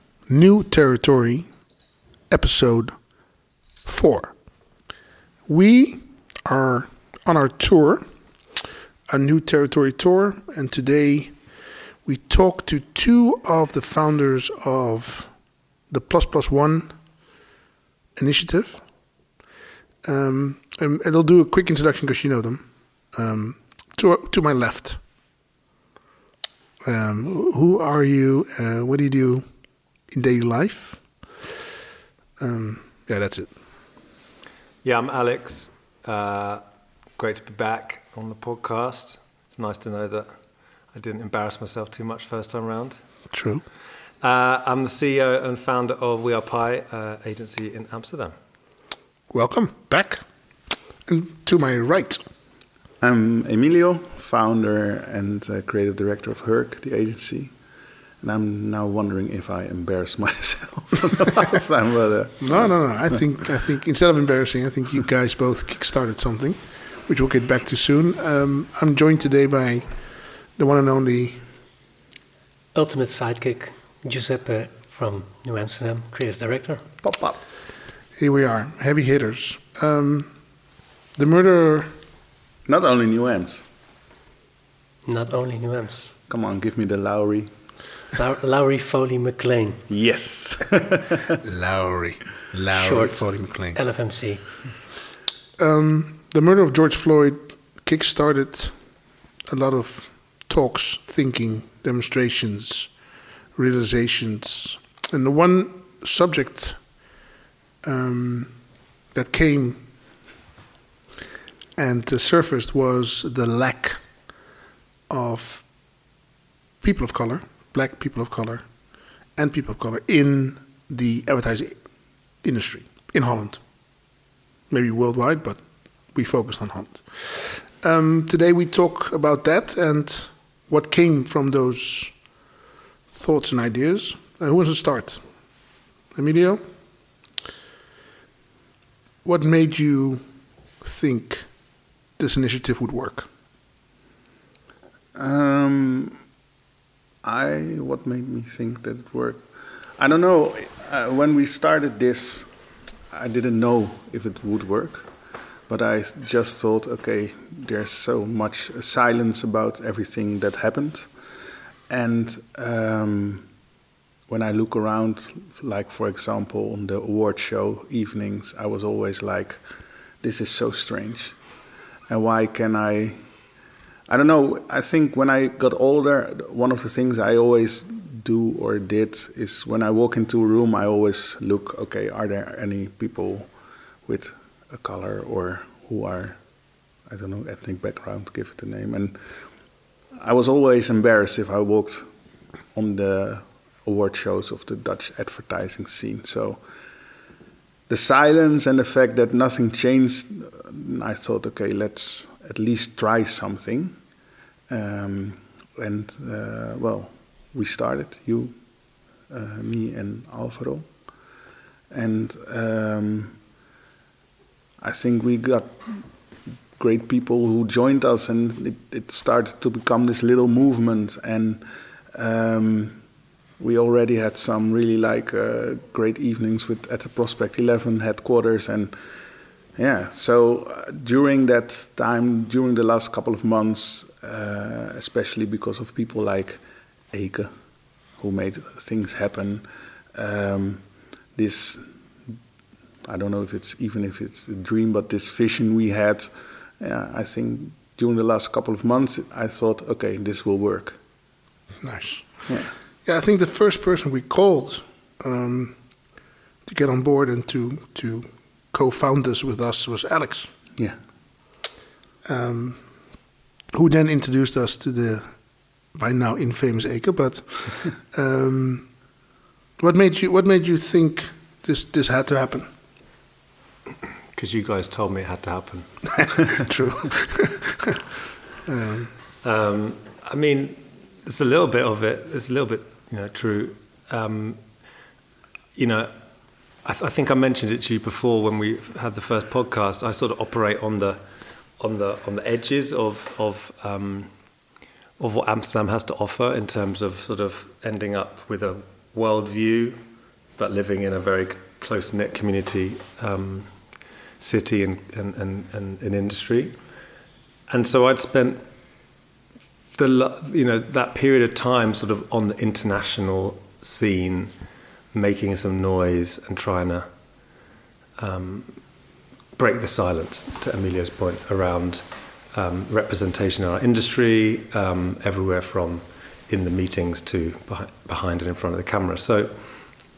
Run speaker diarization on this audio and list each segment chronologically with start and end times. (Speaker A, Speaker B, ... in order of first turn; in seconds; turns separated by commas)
Speaker A: 0.3-1.5, Speaker A: 2.3-3.0, Speaker A: 3.9-4.4, Speaker A: 5.5-8.1, Speaker A: 9.1-11.4, Speaker A: 12.0-15.4, Speaker A: 15.9-17.0, Speaker A: 18.2-18.9, Speaker A: 20.0-25.0, Speaker A: 26.8-29.5, Speaker A: 30.1-31.1, Speaker A: 32.4-33.5, Speaker B: 34.8-36.6, Speaker B: 37.2-40.3, Speaker B: 40.9-43.0, Speaker A: 43.3-43.6, Speaker B: 44.2-48.4, Speaker A: 49.3-50.2, Speaker A: 51.1-52.2, Speaker C: 53.0-57.5, Speaker C: 58.2-62.8, Speaker A: 62.4-70.0, Speaker A: 70.5-71.4, Speaker D: 72.7-76.9, Speaker A: 78.2-80.3, Speaker A: 81.2-82.0, Speaker C: 82.7-83.6, Speaker D: 85.0-86.1, Speaker C: 86.3-87.5, Speaker D: 88.2-89.8, Speaker C: 89.9-91.4, Speaker A: 91.4-93.8, Speaker D: 92.7-94.7, Speaker A: 95.6-98.8, Speaker A: 99.5-103.0, Speaker A: 103.5-107.0, Speaker A: 107.8-108.6, Speaker A: 109.1-109.8, Speaker A: 111.8-114.0, Speaker A: 115.1-115.7, Speaker A: 116.8-121.8, Speaker A: 122.4-123.6, Speaker A: 124.7-132.3, Speaker A: 133.1-135.3, Speaker A: 136.1-136.6, Speaker A: 139.2-140.2, Speaker A: 140.8-141.5, Speaker A: 142.2-143.3, Speaker C: 145.2-146.2, Speaker C: 147.2-152.5, Speaker C: 153.1-155.1, Speaker C: 155.7-161.1, Speaker C: 161.9-163.5, Speaker C: 164.3-169.6, Speaker C: 170.2-171.4, Speaker C: 172.1-173.2, Speaker C: 174.1-183.5, Speaker C: 184.1-186.4, Speaker C: 187.1-189.2, Speaker C: 190.2-192.1, Speaker C: 192.7-196.6, Speaker C: 197.9-204.0, Speaker C: 204.7-208.6, Speaker C: 209.3-210.9, Speaker C: 211.9-213.4, Speaker C: 214.8-216.1, Speaker C: 216.8-223.0, Speaker C: 223.6-228.9, Speaker C: 229.8-236.6, Speaker C: 237.1-237.5, Speaker C: 238.2-242.4, Speaker C: 243.1-251.0, Speaker A: 251.8-255.8, Speaker A: 256.6-260.5, Speaker A: 262.2-262.9, Speaker A: 263.7-268.9, Speaker A: 269.8-272.7, Speaker B: 274.3-276.4, Speaker A: 276.6-278.0, Speaker A: 278.7-279.1, Speaker B: 279.4-284.6, Speaker B: 285.8-286.1, Speaker B: 286.8-291.2, Speaker B: 291.8-294.3, Speaker B: 295.2-300.0, Speaker B: 300.6-303.7, Speaker B: 304.4-306.8, Speaker B: 307.7-308.6, Speaker B: 309.9-314.5, Speaker B: 315.1-317.1, Speaker B: 318.2-318.8, Speaker B: 319.6-329.5